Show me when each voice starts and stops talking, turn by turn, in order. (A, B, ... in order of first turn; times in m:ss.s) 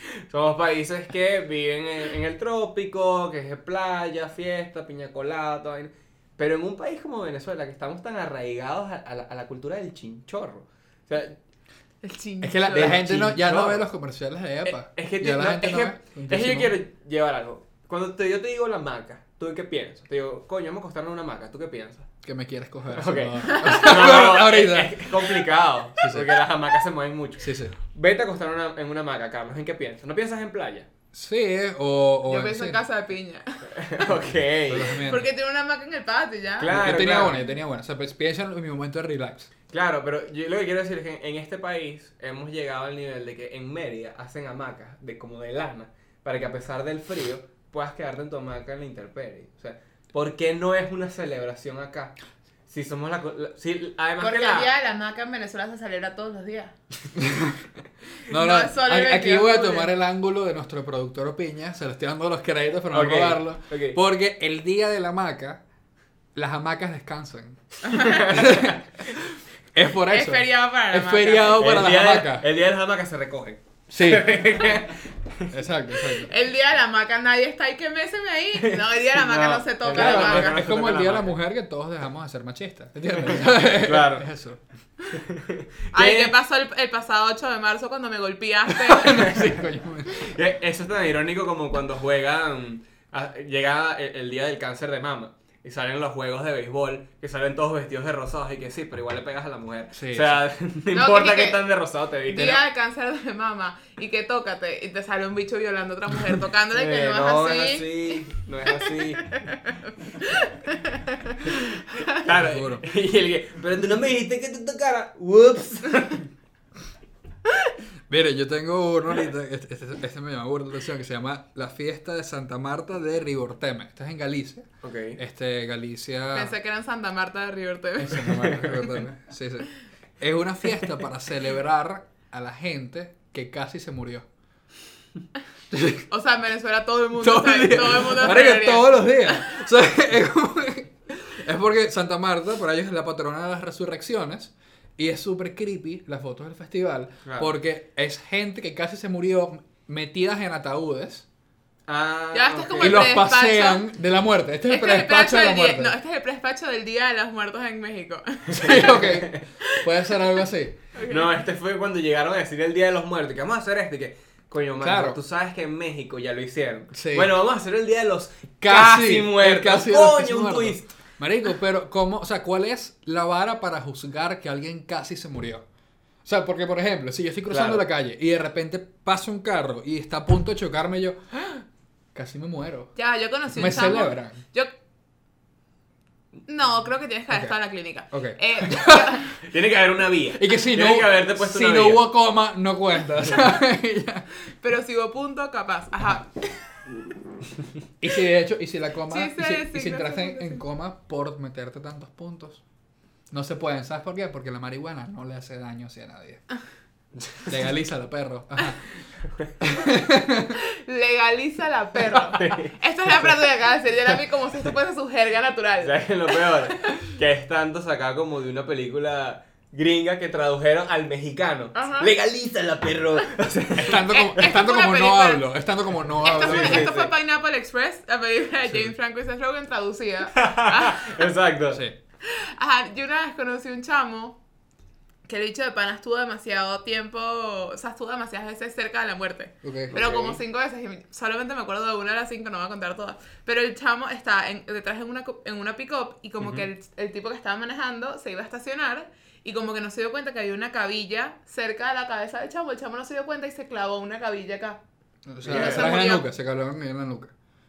0:00.3-0:11.4 A
0:12.0-0:13.0 B
0:12.4-0:16.8 C
0:12.7-0:13.8 A
0:14.7-0:22.1 A
0:22.2-0:25.2 C
0:22.9-0:30.9 A
0:26.0-0:26.4 C
0:27.4-0:27.8 C
0:31.1-0:32.8 C
0:32.3-0:33.9 B
0:33.8-0:34.9 A
0:34.7-0:35.3 C
0:34.8-0:36.7 B
0:36.6-0:37.4 A
0:36.7-0:39.5 C
0:39.7-0:52.2 A
0:52.7-0:54.7 A
0:54.2-0:56.7 B
0:57.2-0:57.6 C
0:58.3-1:05.6 C
0:58.3-0:59.9 B
1:02.9-1:04.0 A
1:06.4-1:12.5 C
1:07.8-1:08.3 B
1:08.1-1:08.6 A
1:10.1-1:11.6 B
1:11.6-1:15.5 A
1:13.9-1:14.4 C
1:15.5-1:16.3 C
1:16.3-1:20.6 B
1:19.2-1:21.4 A
1:19.9-1:24.6 C
1:23.3-1:24.3 A
1:25.1-1:26.4 A
1:25.9-1:29.3 B
1:28.7-1:30.3 C
1:30.1-1:42.6 A
1:40.0-1:40.4 C
1:40.9-1:41.7 B
1:42.3-1:48.2 B
1:46.7-1:49.4 A
1:49.3-1:52.2 B
1:52.1-1:56.3 A
1:52.4-1:52.8 C
1:58.1-2:06.6 C
2:04.8-2:05.2 A
2:06.3-2:08.4 B
2:08.0-2:14.2 C
2:08.4-2:08.9 A
2:15.7-2:16.0 C
2:16.1-2:19.4 B
2:17.2-2:31.3 C
2:27.2-2:27.5 A
2:31.9-2:33.0 A
2:32.3-2:33.9 B
2:32.8-2:36.0 C
2:34.7-2:39.0 B
2:38.5-2:40.8 C
2:38.8-2:39.4 A
2:40.9-2:41.3 B
2:41.1-2:50.9 A
2:44.8-2:45.2 C
2:46.9-2:47.3 C
2:48.6-2:55.6 C
2:56.2-3:01.2 C
2:57.5-2:57.9 A
3:02.2-3:02.9 C
3:03.0-3:04.7 B
3:03.5-3:04.4 C
3:06.5-3:09.3 B
3:08.1-3:09.2 C
3:09.3-3:12.1 A
3:10.3-3:14.3 C
3:14.6-3:16.3 B
3:18.0-3:22.6 C
3:19.1-3:20.6 B
3:23.3-3:26.4 C
3:27.2-3:27.5 A
3:27.5-3:28.8 C
3:29.6-3:30.6 C
3:30.6-3:36.6 B
3:32.4-3:32.8 A
3:35.8-3:44.1 A
3:41.8-3:42.1 B
3:43.8-3:46.9 C
3:44.1-3:45.5 B
3:46.2-3:51.2 B
3:46.2-3:47.1 A
3:50.4-3:51.8 A
3:51.7-3:52.0 C
3:52.2-3:54.4 B
3:55.3-4:14.8 B
3:59.6-4:00.0 C
3:59.9-4:00.4 A
4:06.4-4:06.7 A
4:15.3-4:17.3 C
4:15.4-4:15.9 A
4:15.4-4:16.3 B